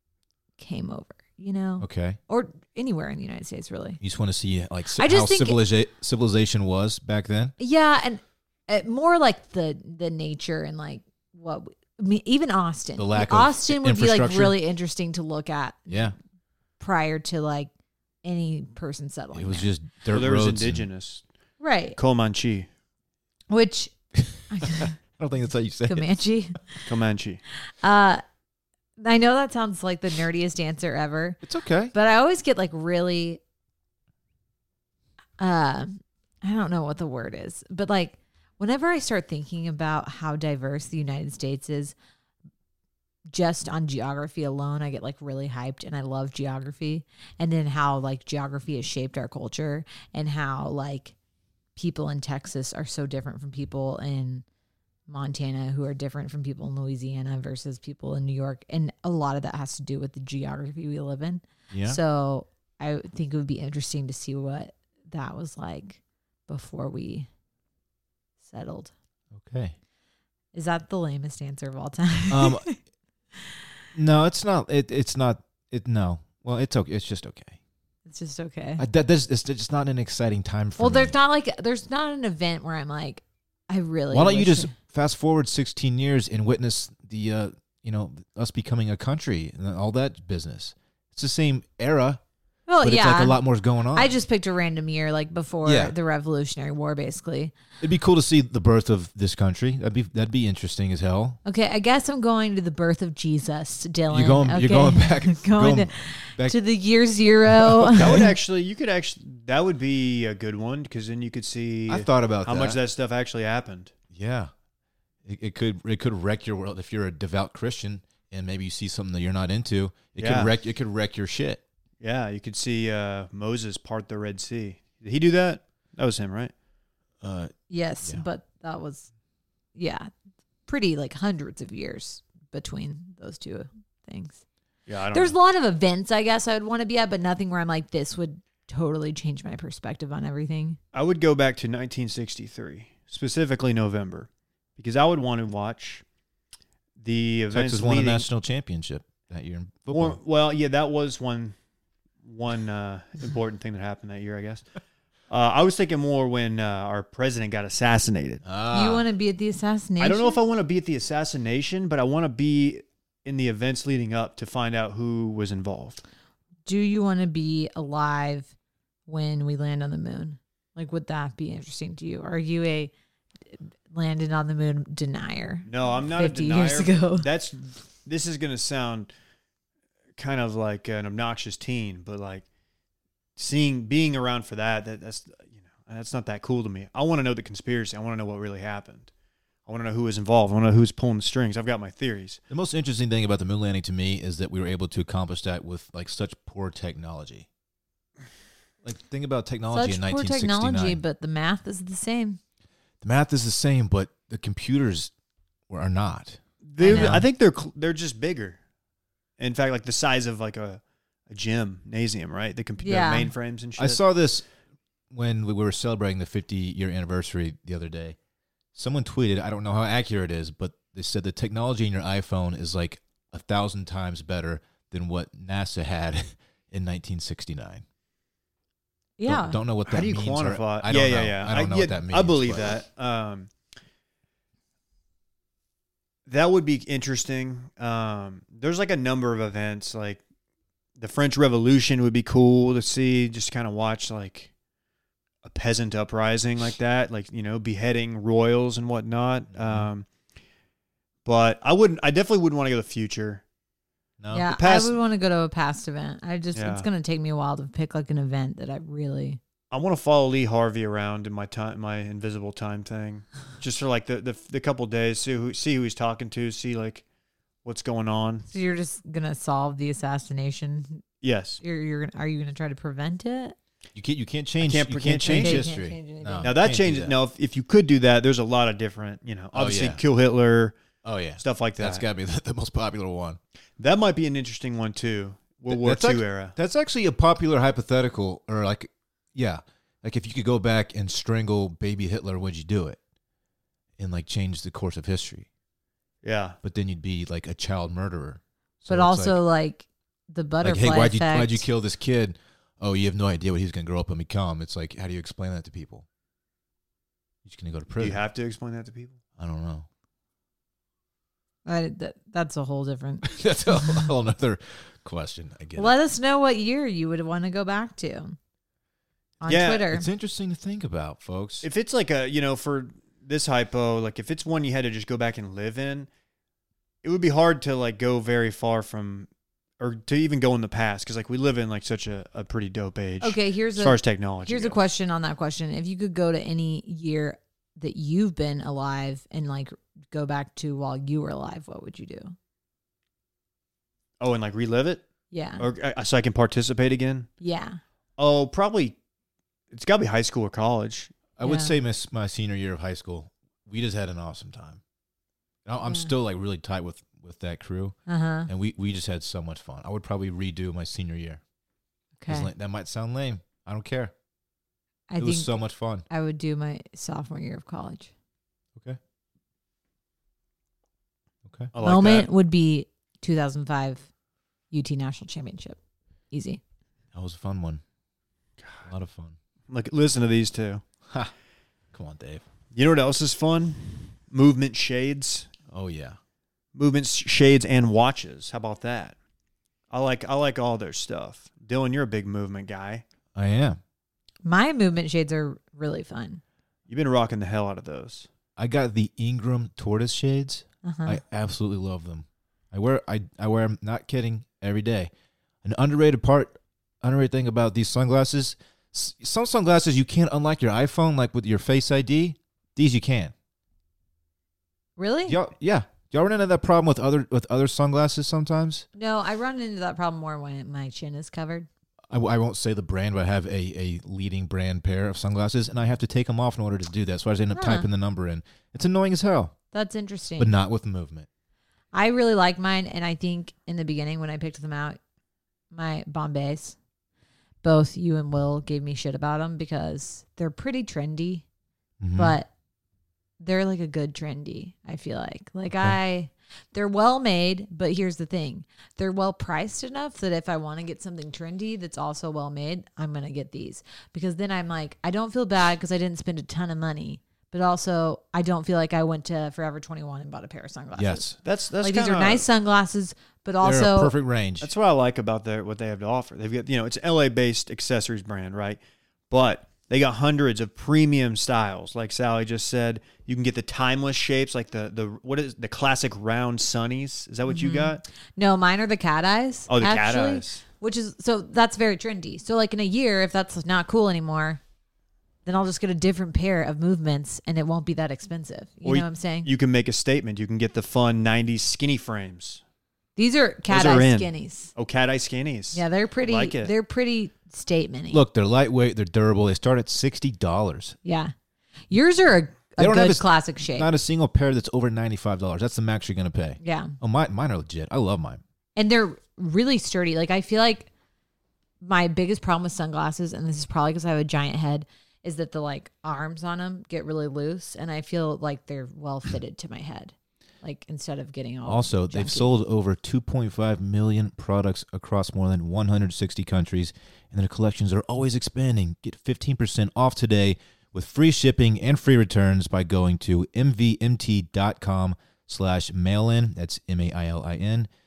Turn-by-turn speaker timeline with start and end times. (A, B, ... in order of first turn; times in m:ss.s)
0:00.6-0:04.0 A
0:01.8-0:02.2 B
0:04.0-0:07.5 B
0:05.0-0:05.6 A
0:07.6-0:16.1 A
0:13.0-0:14.6 B
0:15.9-0:16.1 B
0:16.8-0:17.7 A
0:18.2-0:19.7 A
0:19.3-0:20.9 B
0:20.1-0:21.2 C
0:21.6-0:22.0 A
0:22.0-0:22.7 C
0:23.5-0:23.9 A
0:24.2-0:26.1 B
0:24.5-0:24.9 A
0:25.9-0:26.8 A
0:26.8-0:27.4 C
0:27.8-0:28.2 A
0:29.0-0:31.4 A
0:31.4-0:31.9 B
0:31.9-0:33.4 A
0:35.4-0:41.9 A
0:43.3-0:51.1 A
0:51.8-0:54.4 A
0:55.1-1:07.3 A
1:01.7-1:02.0 B
1:08.4-1:08.9 A
1:09.3-1:09.7 B
1:10.5-1:12.7 A
1:12.3-1:12.7 B
1:13.9-1:17.6 B
1:18.0-1:18.8 A
1:18.8-1:21.1 B
1:20.8-1:24.8 A
1:24.1-1:32.2 B
1:32.7-1:33.4 A
1:32.8-1:34.1 B
1:33.9-1:37.5 A
1:35.6-1:35.9 B
1:37.8-1:41.4 B
1:41.4-1:48.3 A
1:44.1-1:46.6 B
1:47.5-1:48.3 B
1:47.9-1:53.9 C
1:51.9-1:52.8 B
1:54.1-1:54.5 B
1:55.2-2:01.6 B
2:00.2-2:00.5 C
2:02.0-2:06.5 C
2:07.2-2:07.5 B
2:07.7-2:09.1 A
2:09.7-2:10.1 A
2:10.7-2:14.4 A
2:14.9-2:15.3 C
2:15.1-2:20.8 A
2:20.9-2:26.0 C
2:27.0-2:28.3 C
2:27.5-2:30.2 B
2:29.9-2:31.5 C
2:32.2-2:34.6 C
2:35.3-2:38.4 C
2:38.4-2:39.0 B
2:38.7-2:40.4 A
2:40.0-2:46.0 C
2:46.6-2:48.5 A
2:49.1-2:52.9 A
2:53.5-2:57.3 A
2:55.6-2:59.1 C
3:00.2-3:02.4 C
3:03.4-3:09.1 C
3:09.6-3:12.4 C
3:12.5-3:17.5 B
3:18.8-3:21.0 B
3:19.7-3:22.4 A
3:23.0-3:25.1 B
3:25.7-3:27.3 B
3:26.6-3:28.6 C
3:26.8-3:27.2 A
3:29.4-3:34.0 C
3:32.8-3:33.3 A
3:33.8-3:34.4 B
3:35.1-3:38.2 B
3:38.7-3:47.8 B
3:49.2-3:49.6 A
3:49.2-3:52.7 B
3:49.8-3:53.5 C
3:56.3-4:00.2 C
4:01.0-4:04.5 C
4:05.4-4:10.0 C
4:09.5-4:09.9 B
4:11.2-4:13.4 C
4:14.2-4:14.5 B
4:14.3-4:19.4 A
4:14.5-4:14.9 C
4:16.5-4:16.9 C
4:19.7-4:27.0 C
4:27.6-4:28.5 C
4:28.5-4:31.0 A
4:31.2-4:31.6 C
4:31.6-4:33.6 A
4:33.9-4:37.2 B
4:34.6-4:35.7 C
4:35.3-4:36.6 A
4:36.4-4:40.8 C
4:39.5-4:40.0 B
4:41.0-4:43.4 B
4:41.4-4:42.0 C
4:43.8-4:46.6 C
4:45.7-4:53.0 B
4:54.0-4:55.5 B
4:56.2-4:56.6 C
4:56.6-4:59.4 B
4:58.9-5:01.7 A
5:00.6-5:06.0 B
5:07.4-5:08.2 B
5:08.0-5:09.2 C
5:09.4-5:09.9 B
5:11.6-5:14.1 A
5:13.2-5:15.9 B
5:15.8-5:18.4 A
5:19.4-5:20.0 A
5:19.4-5:19.9 C
5:19.9-5:21.7 B
5:21.6-5:26.1 C
5:27.0-5:34.8 C
5:33.2-5:42.3 A
5:44.2-5:45.0 C
5:45.3-5:45.7 A
5:45.6-5:47.3 C
5:47.4-5:47.8 A
5:48.2-5:49.0 C
5:49.7-5:51.1 C
5:51.4-5:54.8 B
5:51.4-5:51.8 A
5:55.6-5:58.0 B
5:55.8-5:56.1 A
5:58.1-5:58.5 A
5:58.5-6:01.4 B
6:02.2-6:02.5 A
6:02.3-6:04.1 B
6:05.1-6:05.5 A
6:05.2-6:06.0 B
6:06.1-6:08.1 A
6:11.4-6:11.7 B
6:11.7-6:12.3 C
6:11.8-6:14.1 A
6:14.7-6:15.8 A
6:16.3-6:16.6 A
6:17.1-6:17.8 B
6:18.6-6:18.9 C
6:18.8-6:19.4 B
6:19.7-6:20.8 C
6:21.9-6:22.4 B
6:22.7-6:25.5 C
6:25.7-6:26.2 B
6:26.7-6:29.1 C
6:29.9-6:33.0 C
6:33.3-6:33.8 B
6:34.4-6:36.4 A
6:36.9-6:38.3 C
6:38.6-6:45.1 B
6:40.8-6:41.2 A
6:45.6-6:53.3 B
6:55.0-6:55.4 A
6:55.3-6:58.8 B
6:59.0-7:01.7 A
7:02.1-7:09.5 B
7:07.5-7:07.9 A
7:09.7-7:10.5 A
7:10.4-7:11.3 B
7:11.9-7:15.0 A
7:15.7-7:16.8 A
7:17.6-7:21.4 A
7:22.0-7:22.4 B
7:22.2-7:22.5 A
7:23.4-7:41.3 A
7:41.0-7:41.4 B
7:41.4-7:42.5 C
7:41.8-7:44.1 A
7:43.6-7:44.7 B
7:44.6-7:58.0 C
7:57.5-8:04.6 A
7:59.7-8:00.6 C
8:05.4-8:09.5 A
8:08.8-8:12.6 C
8:13.2-8:14.7 A
8:13.7-8:16.7 C
8:15.7-8:18.2 A
8:18.1-8:21.0 B
8:21.0-8:21.3 A
8:21.9-8:23.9 A
8:22.8-8:28.4 B
8:26.6-8:26.9 A
8:28.8-8:30.9 A
8:31.8-8:42.5 A
8:41.6-8:57.9 B